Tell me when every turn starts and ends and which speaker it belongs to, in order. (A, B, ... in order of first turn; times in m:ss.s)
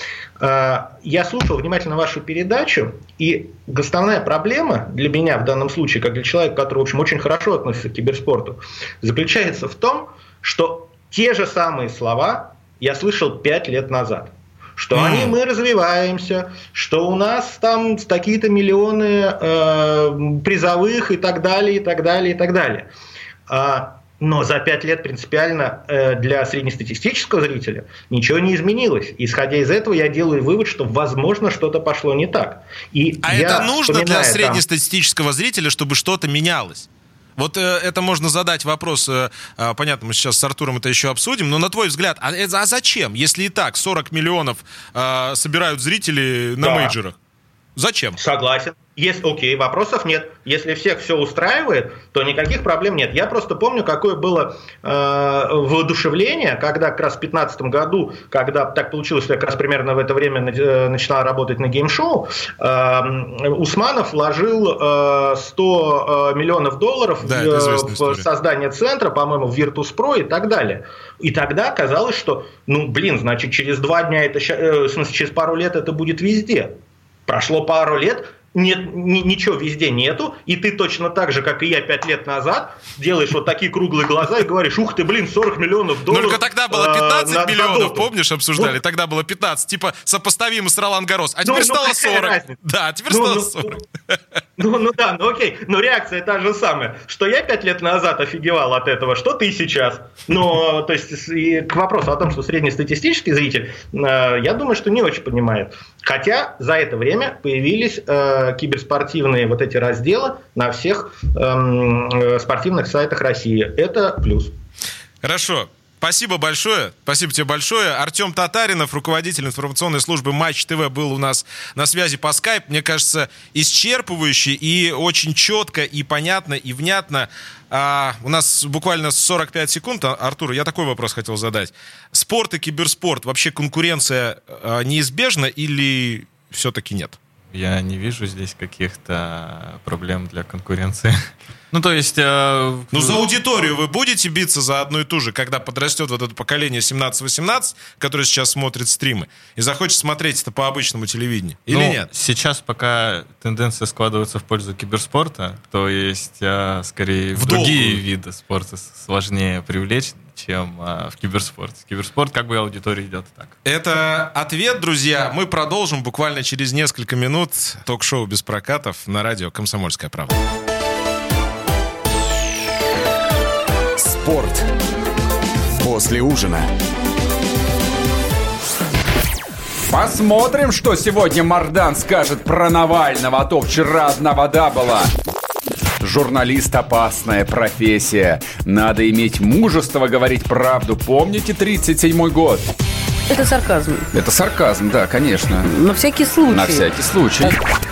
0:00.4-0:22.9 A
0:14.9-0:15.4 B
0:23.5-0:34.6 A
0:33.2-0:47.1 B
0:46.6-0:46.9 A
0:47.8-0:48.2 B
0:48.2-1:16.7 A
1:07.2-1:08.2 B
1:17.3-1:28.7 A
1:26.1-1:33.8 B
1:31.4-1:32.6 A
1:33.1-1:33.8 A
1:34.6-1:54.5 A
1:55.2-2:17.2 B
2:17.5-2:23.2 C
2:22.9-2:32.1 B
2:31.7-2:43.6 C
2:37.4-2:38.0 B
2:43.6-2:50.3 B
2:54.0-2:54.6 D
2:55.8-2:56.7 D
2:59.9-3:05.1 D
3:06.0-3:12.6 D
3:13.3-3:14.1 E
3:14.1-3:15.7 D
3:15.7-3:16.8 E
3:16.4-3:17.5 D